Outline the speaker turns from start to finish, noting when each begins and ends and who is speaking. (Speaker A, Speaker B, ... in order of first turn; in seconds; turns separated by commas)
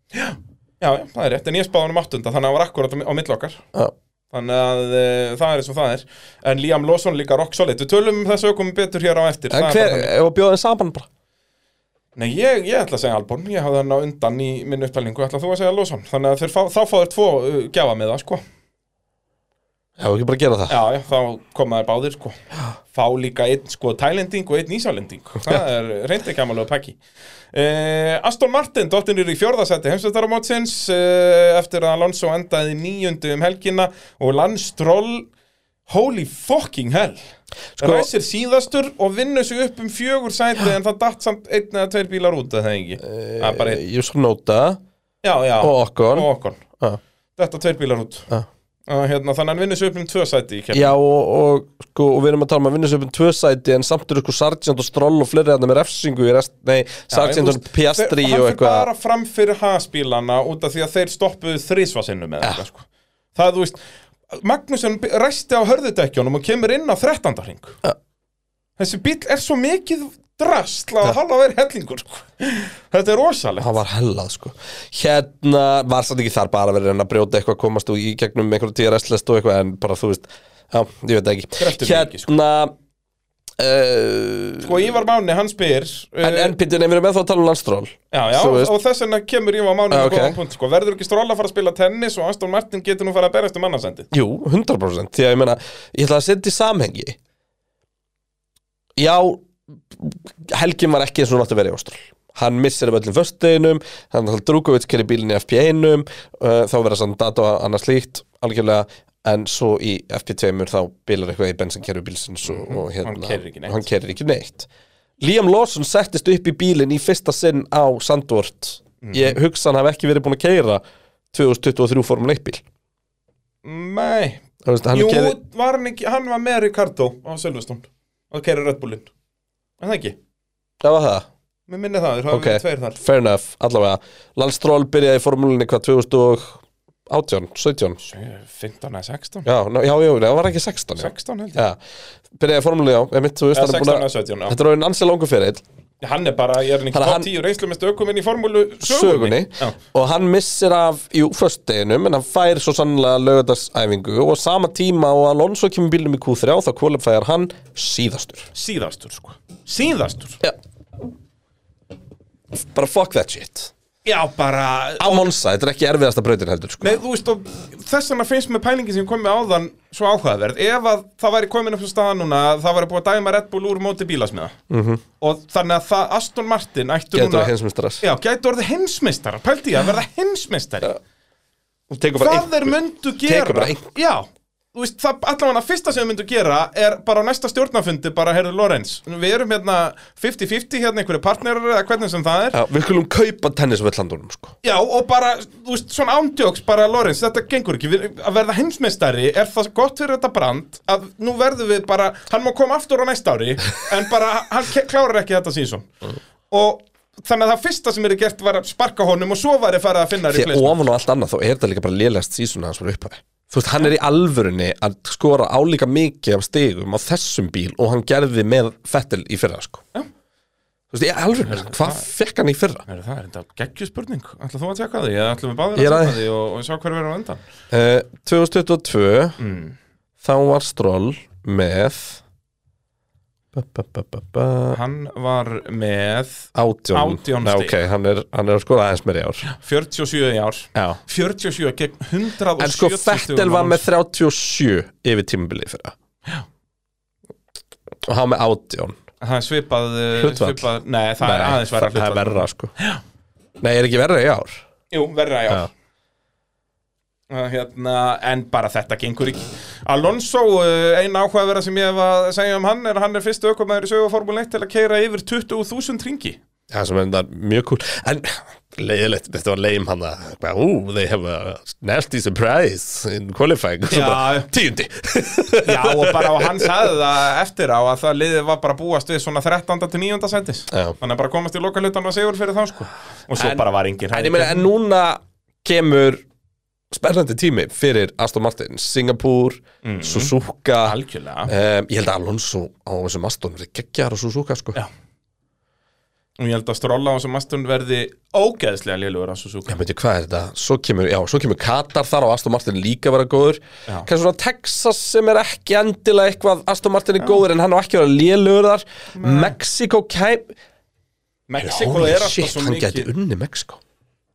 Speaker A: 0.1-3.6, Speaker A: 4.3-10.1, Speaker B: 9.5-11.1, Speaker A: 12.2-18.4, Speaker B: 20.0-20.8, Speaker A: 20.7-22.4, Speaker A: 22.9-27.0, Speaker A: 27.5-35.3, Speaker A: 35.9-37.2, Speaker B: 37.8-38.1, Speaker A: 37.8-43.8, Speaker B: 43.0-44.8, Speaker A: 45.2-46.6, Speaker B: 45.6-47.0, Speaker A: 47.4-48.3, Speaker A: 48.9-50.9, Speaker B: 50.7-58.9, Speaker A: 57.1-63.8, Speaker A: 64.3-67.8, Speaker A: 68.8-73.7, Speaker B: 73.6-82.7, Speaker A: 81.6-82.3, Speaker B: 83.6-84.8, Speaker A: 84.6-86.5, Speaker B: 86.2-88.7, Speaker A: 88.1-94.1, Speaker B: 89.9-90.4, Speaker B: 94.1-97.2, Speaker B: 99.0-114.7, Speaker A: 112.4-113.8, Speaker B: 115.2-120.8, Speaker A: 119.0-119.4, Speaker B: 121.3-122.6, Speaker A: 123.6-129.1, Speaker B: 124.6-125.3, Speaker A: 129.8-130.2, Speaker B: 130.8-131.2, Speaker A: 131.7-133.0, Speaker B: 132.3-138.0, Speaker A: 138.0-139.4, Speaker B: 139.4-141.8, Speaker A: 141.0-141.6, Speaker B: 142.4-145.6, Speaker A: 143.5-144.6, Speaker A: 146.0-149.8, Speaker B: 146.9-147.3, Speaker B: 148.8-158.5, Speaker A: 158.5-160.4, Speaker B: 162.5-163.7, Speaker A: 164.1-165.3, Speaker B: 165.0-167.0, Speaker A: 166.8-174.6, Speaker B: 174.7-175.0, Speaker A: 175.2-180.9, Speaker B: 177.1-178.0, Speaker B: 181.9-183.8, Speaker A: 182.2-192.6, Speaker B: 192.5-194.5, Speaker A: 194.6-205.9, Speaker A: 206.5-210.8, Speaker B: 210.3-219.8, Speaker B: 220.9-222.8, Speaker A: 221.4-222.1, Speaker A: 222.9-227.4, Speaker B: 225.8-226.2, Speaker B: 227.7-229.3, Speaker A: 229.4-229.8, Speaker B: 230.2-232.2, Speaker B: 233.5-234.8, Speaker A: 234.7-237.8, Speaker B: 236.5-239.4, Speaker A: 239.4-243.8, Speaker B: 240.7-241.0, Speaker B: 242.6-245.9, Speaker B: 248.0-249.0, Speaker A: 249.2-253.0, Speaker B: 250.2-250.6, Speaker B: 251.2-252.7, Speaker B: 253.6-254.6, Speaker A: 254.9-255.7, Speaker A: 257.3-266.4, Speaker B: 266.7-276.7, Speaker A: 273.9-274.5, Speaker A: 275.6-284.7, Speaker B: 280.7-280.9, Speaker B: 283.4-286.2, Speaker B: 286.9-290.9, Speaker A: 289.8-291.5, Speaker B: 291.5-294.8, Speaker A: 296.4-299.8, Speaker B: 299.7-310.5, Speaker A: 309.1-309.5, Speaker A: 311.5-313.1, Speaker B: 311.6-313.8